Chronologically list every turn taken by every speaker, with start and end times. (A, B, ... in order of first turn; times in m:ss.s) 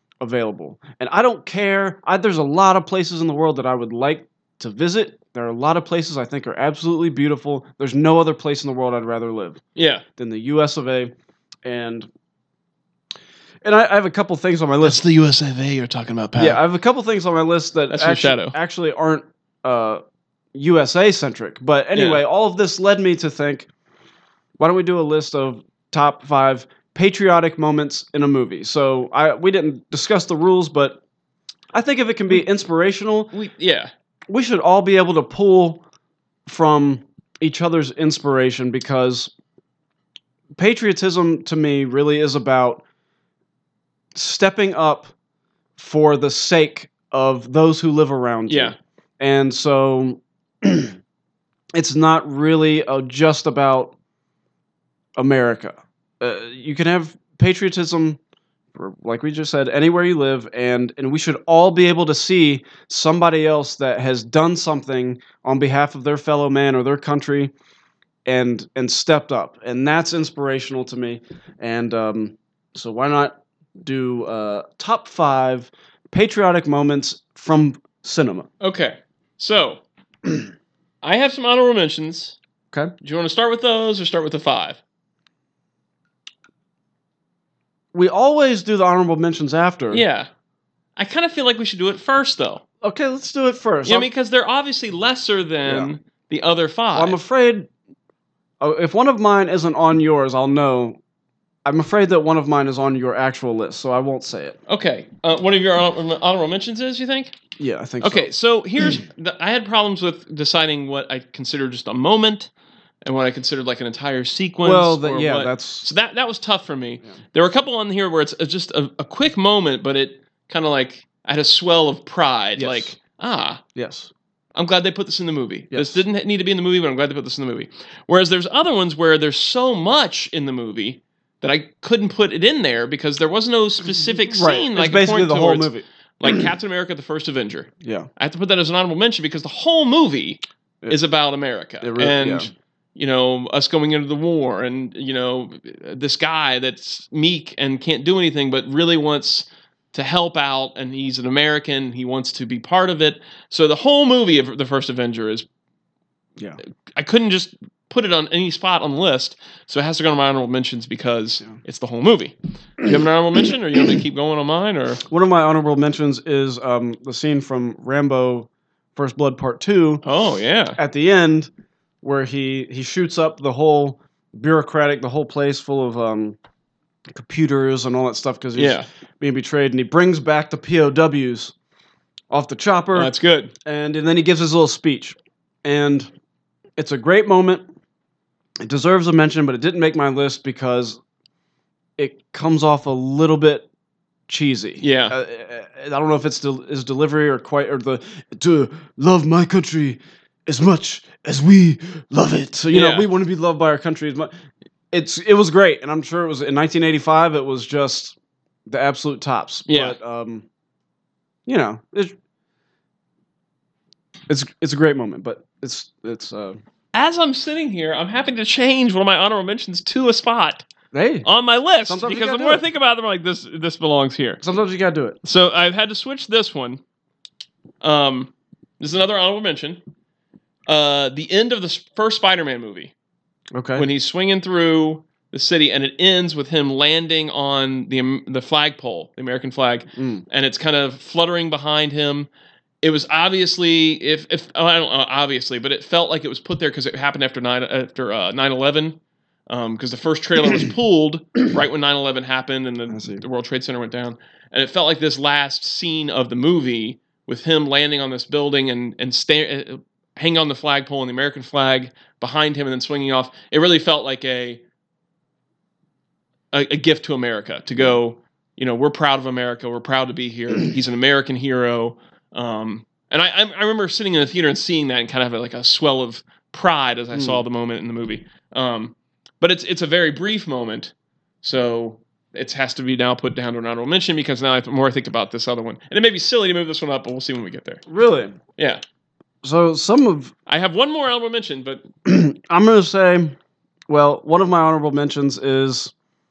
0:00.2-0:09.6 A
0:09.7-0:10.0 B
0:10.2-0:11.1 A
0:11.6-0:12.1 A
0:13.6-0:15.0 A
0:14.8-0:16.6 B
0:16.4-0:20.0 A
0:17.9-0:18.6 B
0:20.5-0:23.7 A
0:21.9-0:22.2 B
0:24.6-0:31.0 A
0:31.7-0:33.3 A
0:33.3-0:33.9 B
0:34.3-0:35.8 A
0:36.4-0:39.3 A
0:40.6-0:42.8 A
0:44.1-0:45.1 A
0:45.8-0:51.0 A
0:48.5-0:48.8 B
0:51.7-0:53.9 A
0:55.2-0:58.2 A
0:58.7-1:07.5 A
1:08.2-1:18.5 A
1:18.6-1:19.8 B
1:21.0-1:22.4 B
1:23.0-1:24.8 B
1:27.9-1:30.0 A
1:29.9-1:30.3 B
1:31.0-1:32.6 B
1:32.8-1:34.1 A
1:33.8-1:37.2 B
1:35.6-1:35.9 A
1:36.9-1:37.7 A
1:38.6-1:41.0 A
1:41.6-1:44.6 A
1:44.7-1:47.4 B
1:47.6-1:48.3 A
1:48.0-1:52.5 B
1:53.0-2:03.6 B
1:54.6-1:55.9 A
2:02.6-2:02.9 A
2:03.7-2:04.1 A
2:04.5-2:35.5 B
2:05.7-2:06.0 A
2:14.0-2:16.4 A
2:17.8-2:18.1 A
2:21.8-2:22.5 A
2:36.9-2:45.0 B
2:45.1-2:50.0 A
2:50.0-2:50.8 B
2:50.8-2:51.5 A
2:52.0-2:56.4 A
2:57.1-3:01.5 A
2:58.6-2:58.9 B
3:02.3-3:03.1 A
3:02.9-3:03.5 B
3:03.6-3:06.1 A
3:06.8-3:07.6 A
3:08.6-3:11.0 A
3:12.0-3:13.7 A
3:14.3-3:24.3 A
3:14.8-3:15.2 B
3:22.7-3:23.1 B
3:24.9-3:28.2 A
3:28.7-3:30.4 A
3:29.7-3:30.0 B
3:31.4-3:32.2 A
3:34.3-3:36.6 A
3:36.9-3:40.7 B
3:40.9-3:41.3 A
3:41.2-3:44.4 B
3:41.8-3:42.6 A
3:44.4-3:45.2 A
3:45.2-3:46.8 B
3:47.8-3:49.8 B
3:50.7-3:52.9 B
3:53.5-3:53.8 A
3:53.8-4:02.3 B
4:00.0-4:00.2 A
4:02.8-4:09.0 B
4:09.5-4:24.6 B
4:12.9-4:13.2 A
4:26.5-4:47.8 B
4:37.1-4:37.4 A
4:47.9-4:48.4 A
4:49.4-4:50.3 A
4:50.5-4:51.9 B
4:52.0-4:53.4 A
4:53.9-4:55.9 A